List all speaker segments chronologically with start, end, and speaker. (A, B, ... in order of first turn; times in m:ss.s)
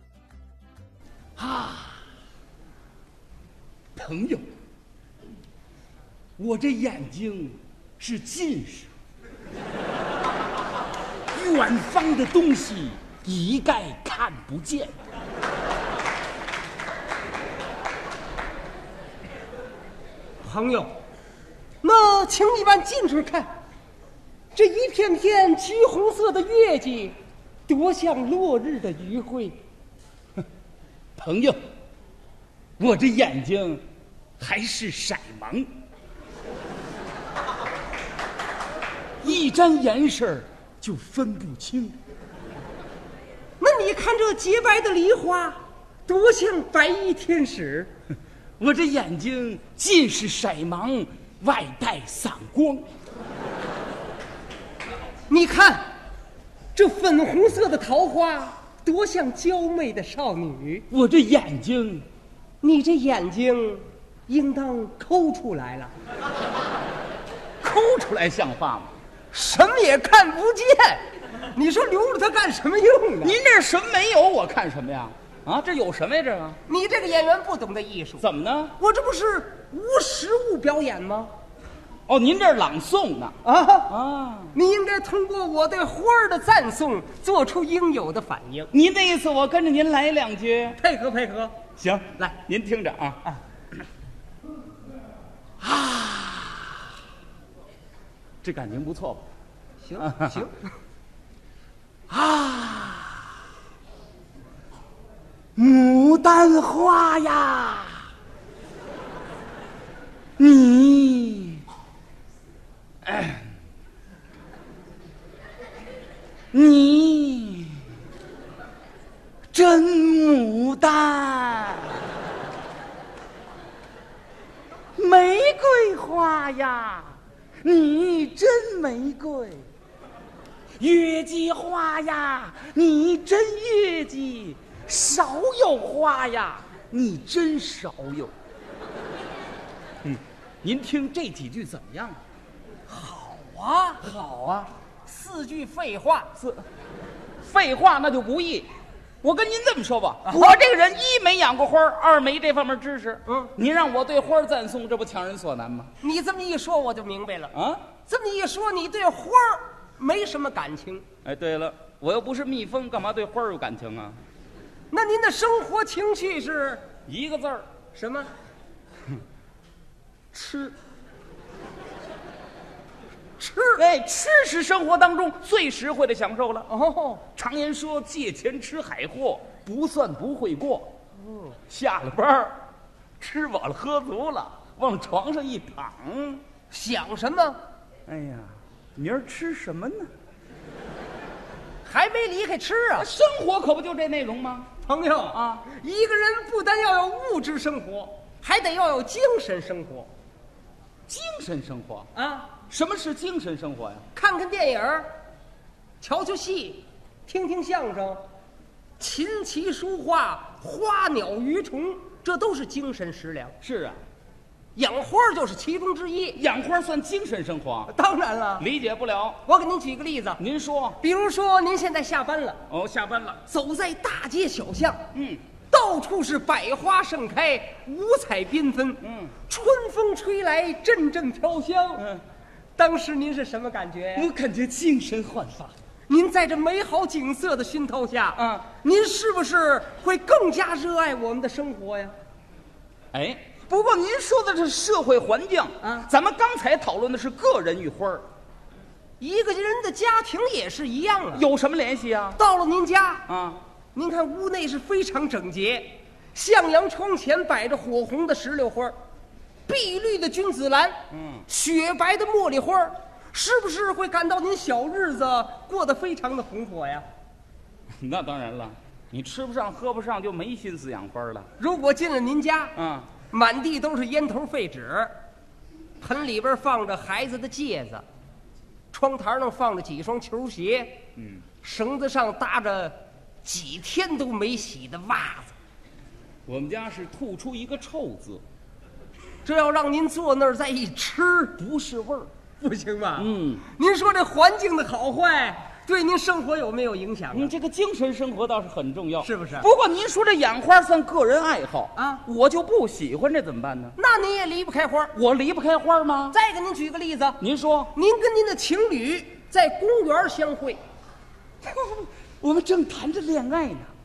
0:01.4-0:02.0 A
0:04.0-0:04.5 A
0:06.4-0:08.9 A
0:11.3-0:15.0 A
0:20.4-0:20.9 B
0:21.8-0:23.5 B
0:24.5-0:27.2 B
0:27.7-0:29.6 B
0:31.2-0:31.6 A
0:32.8-0:33.8 A
0:34.4-0:35.7 A
0:39.2-0:42.0 A
0:43.6-0:47.9 B
0:48.6-0:52.9 A
0:55.3-0:55.9 B
0:56.8-1:00.9 B
1:00.9-1:02.1 A
1:02.6-1:05.9 B
1:07.6-1:08.9 A
1:09.3-1:13.4 B
1:13.2-1:16.6 A
1:16.7-1:18.2 B
1:18.2-1:18.8 A
1:18.8-1:21.3 B
1:22.1-1:23.4 A
1:23.4-1:23.9 B
1:23.9-1:24.6 A
1:24.5-1:28.7 B
1:28.7-1:30.8 A
1:30.8-1:31.6 B
1:31.8-1:33.2 A
1:35.6-1:36.8 A
1:38.4-1:39.2 A
1:39.8-1:40.7 B
1:40.0-1:40.4 A
1:42.1-1:43.3 A
1:45.6-1:48.1 A
1:50.4-1:51.6 A
1:53.0-1:53.5 A
1:56.5-1:57.8 A
1:59.5-2:02.0 A
2:05.0-2:09.7 A
2:10.8-2:18.3 A
2:20.0-2:22.2 A
2:22.9-2:24.0 B
2:24.0-2:24.7 A
2:25.0-2:26.3 B
2:27.4-2:28.7 A
2:29.2-2:35.9 A
2:30.2-2:30.6 B
2:33.3-2:33.5 B
2:36.0-2:37.5 B
2:37.5-2:37.9 A
2:38.1-2:41.0 B
2:41.2-2:44.2 A
2:44.9-2:46.9 B
2:47.1-2:47.7 A
2:47.9-2:48.3 B
2:50.3-2:50.7 A
2:50.4-2:50.7 B
2:53.4-2:53.8 B
2:53.8-2:56.7 A
2:56.7-2:57.2 B
2:57.4-3:00.9 A
3:01.7-3:02.6 A
3:03.2-3:06.4 A
3:06.7-3:07.6 B
3:08.1-3:10.1 A
3:11.8-3:13.1 B
3:13.0-3:14.7 A
3:14.8-3:20.1 B
3:15.3-3:15.7 A
3:21.1-3:22.1 A
3:22.2-3:22.6 B
3:22.7-3:24.0 A
3:24.2-3:25.1 B
3:26.0-3:28.2 B
3:29.0-3:33.6 B
3:33.6-3:34.0 A
3:34.8-3:36.4 B
3:36.4-3:37.9 A
3:37.9-3:38.7 B
3:38.6-3:39.4 A
3:39.4-3:40.4 B
3:40.4-3:41.0 A
3:41.0-3:42.6 B
3:42.7-3:43.4 A
3:43.4-3:45.0 B
3:45.1-3:45.4 A
3:45.7-3:52.0 B
3:49.0-3:49.4 A
3:52.0-3:52.2 A
3:52.8-3:54.3 B
3:54.2-3:55.7 A
3:56.1-4:02.2 B
3:58.4-3:58.7 A
4:03.1-4:08.3 A
4:05.8-4:06.1 B
4:09.2-4:11.5 B
4:11.3-4:12.4 A
4:12.4-4:13.3 B
4:13.3-4:13.6 A
4:13.9-4:19.0 B
4:19.7-4:27.0 B
4:21.1-4:21.5 A
4:27.9-4:31.5 A
4:31.6-4:32.8 B
4:32.8-4:33.1 A
4:33.3-4:35.2 B
4:36.0-4:38.0 B
4:38.9-4:41.0 B
4:41.2-4:41.4 A
4:41.6-4:45.5 B
4:46.5-4:48.4 A
4:49.4-4:51.6 B
4:51.6-4:52.3 A
4:52.6-4:57.5 B
4:53.2-4:53.7 A
4:57.3-5:04.0 A
4:59.2-4:59.7 B
5:02.0-5:02.2 B
5:04.0-5:05.1 B
5:05.1-5:06.4 A
5:06.3-5:07.4 B
5:07.4-5:07.9 A
5:07.9-5:10.8 B
5:11.6-5:13.9 A